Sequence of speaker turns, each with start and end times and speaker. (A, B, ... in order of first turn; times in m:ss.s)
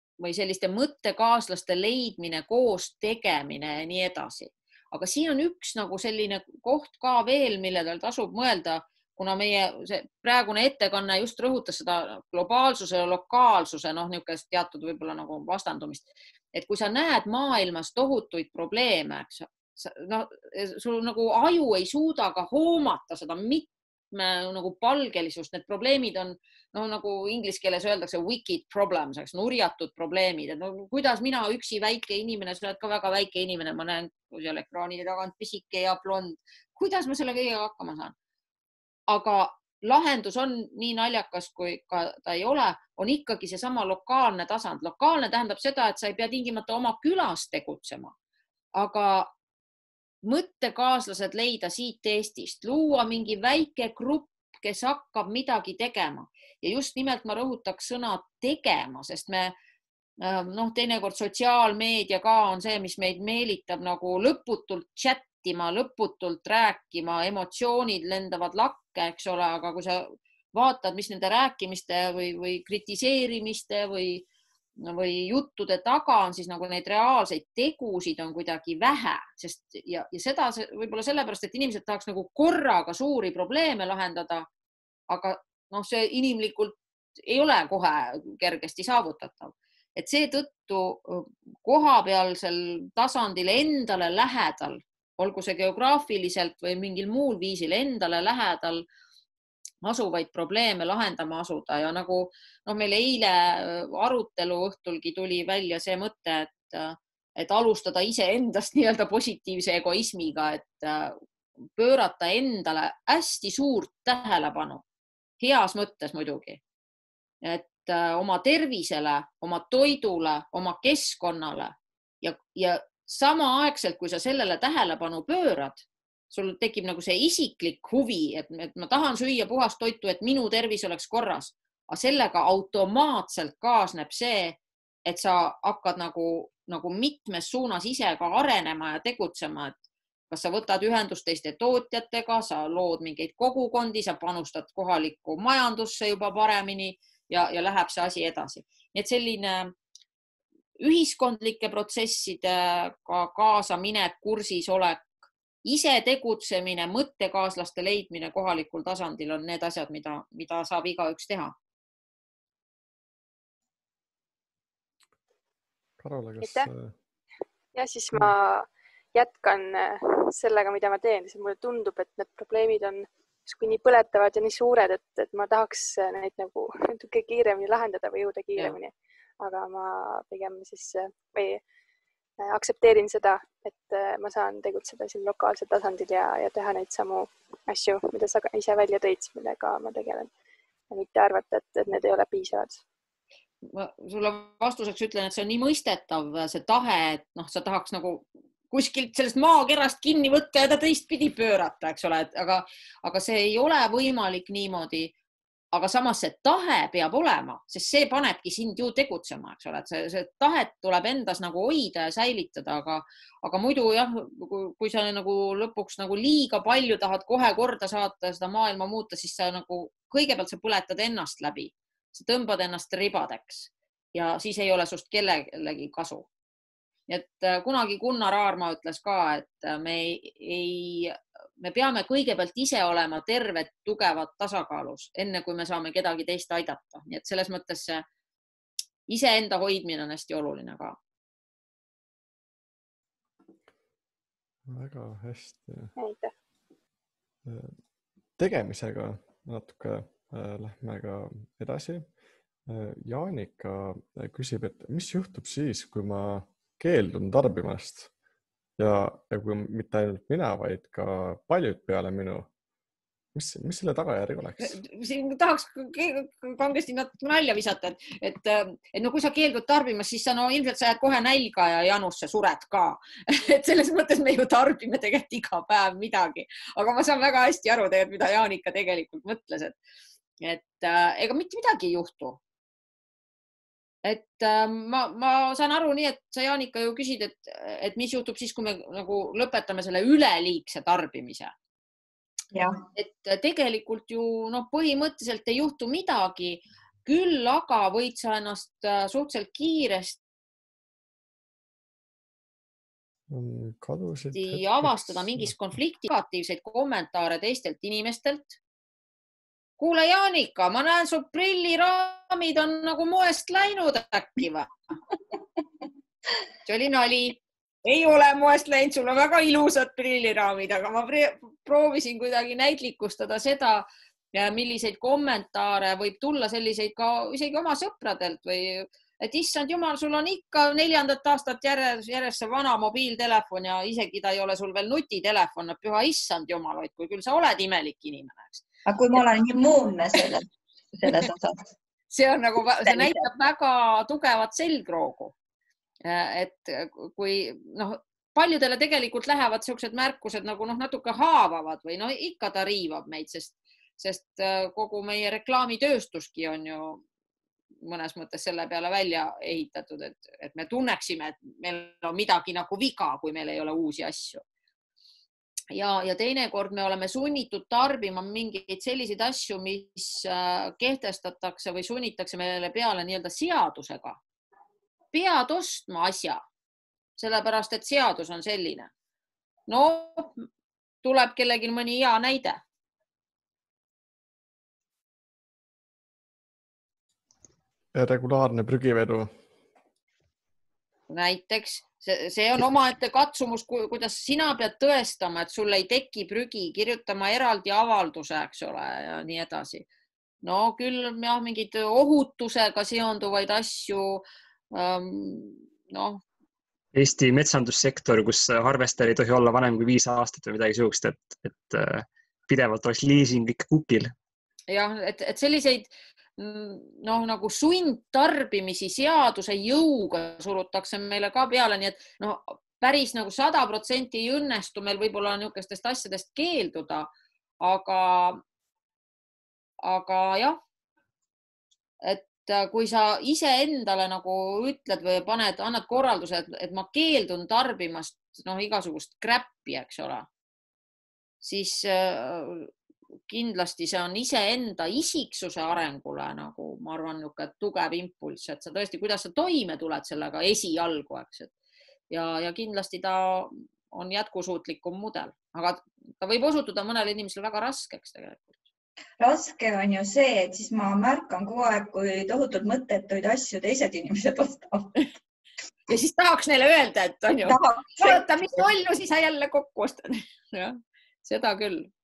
0:00.2-0:38.1 A
0:39.1-0:48.1 A
0:48.7-0:49.3 A
0:50.2-0:59.5 A
1:00.2-1:14.2 A
1:14.8-1:24.5 A
1:25.1-1:38.8 A
1:39.8-1:51.2 A
1:51.8-1:54.8 A
1:55.4-1:56.6 A
1:57.4-2:19.8 A
2:20.3-2:29.7 A
2:30.8-2:41.5 A
2:46.0-2:46.9 B
2:46.4-2:46.7 C
2:47.7-3:01.6 C
3:02.4-3:10.3 C
3:10.9-3:12.8 C
3:13.6-3:25.1 A
3:25.7-3:46.3 A
3:47.1-3:58.0 A
3:59.1-4:01.0 A
4:04.7-4:05.9 B
4:06.0-4:06.3 C
4:07.4-4:07.7 B
4:08.4-4:12.0 B
4:12.7-4:18.1 B
4:18.8-4:22.5 B
4:23.3-4:24.8 B
4:24.6-4:39.8 A
4:40.4-4:42.4 A
4:44.0-4:51.5 A
4:52.9-5:00.2 A
5:03.3-5:05.5 B
5:04.3-5:08.6 A
5:09.8-5:14.7 A
5:16.6-5:38.6 A
5:38.8-5:41.6 D
5:42.1-5:45.3 A
5:42.9-5:43.1 D
5:46.0-5:57.0 A
5:57.8-6:04.4 A
6:05.7-6:14.2 A
6:15.1-6:16.4 A
6:17.2-6:18.9 A
6:19.7-6:20.4 A
6:21.0-6:22.6 A
6:27.9-6:29.3 B
6:31.1-6:39.9 A
6:40.4-6:46.2 A
6:46.9-6:54.1 E
6:54.7-7:07.1 A
7:07.6-7:08.4 A
7:09.8-7:10.6 A
7:12.0-7:20.3 A
7:21.4-7:22.7 A
7:23.3-7:31.5 A
7:32.1-7:38.6 A
7:39.2-7:44.9 D
7:45.9-7:51.9 A
7:47.4-7:48.2 D